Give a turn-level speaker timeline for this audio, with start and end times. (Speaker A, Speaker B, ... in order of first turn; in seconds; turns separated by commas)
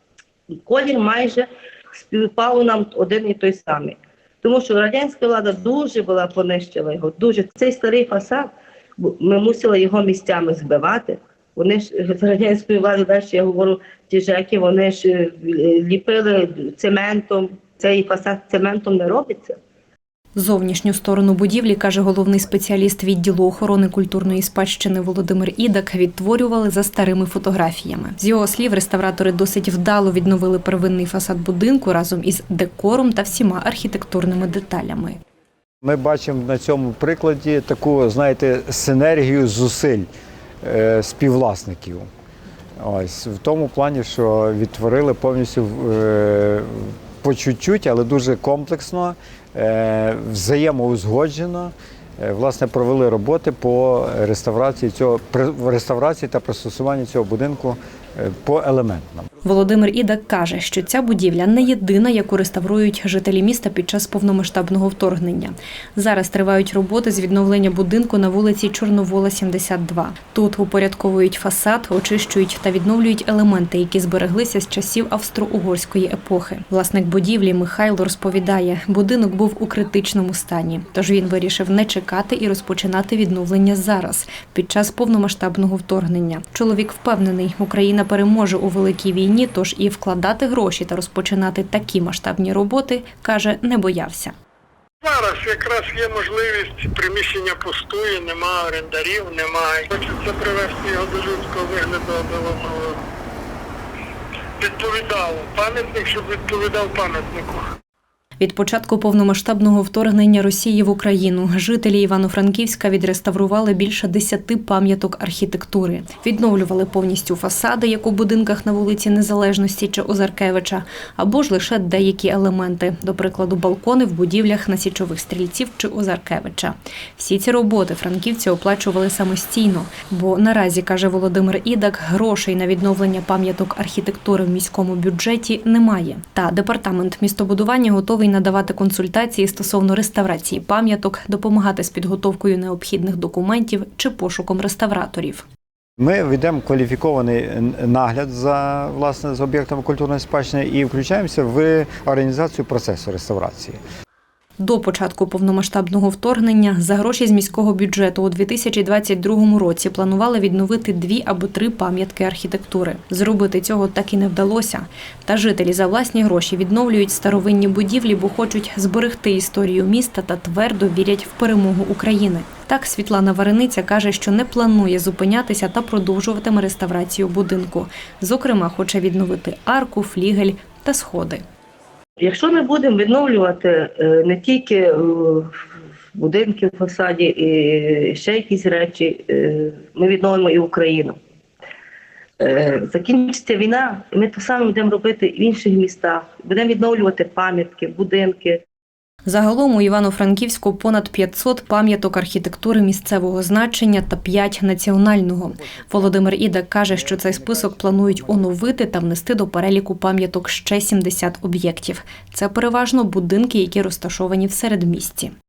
Speaker A: 0.7-19.6, Speaker B: 20.4-35.2, Speaker C: 35.8-40.1, Speaker C: 40.6-42.1, Speaker C: 42.8-59.3, Speaker B: 59.4-94.3, Speaker D: 95.0-103.0, Speaker D: 104.6-107.7, Speaker B: 108.4-145.4, Speaker C: 146.0-153.8, Speaker B: 154.6-181.4, Speaker A: 182.2-185.5, Speaker A: 186.2-191.2, Speaker A: 192.4-198.6, Speaker B: 199.2-215.3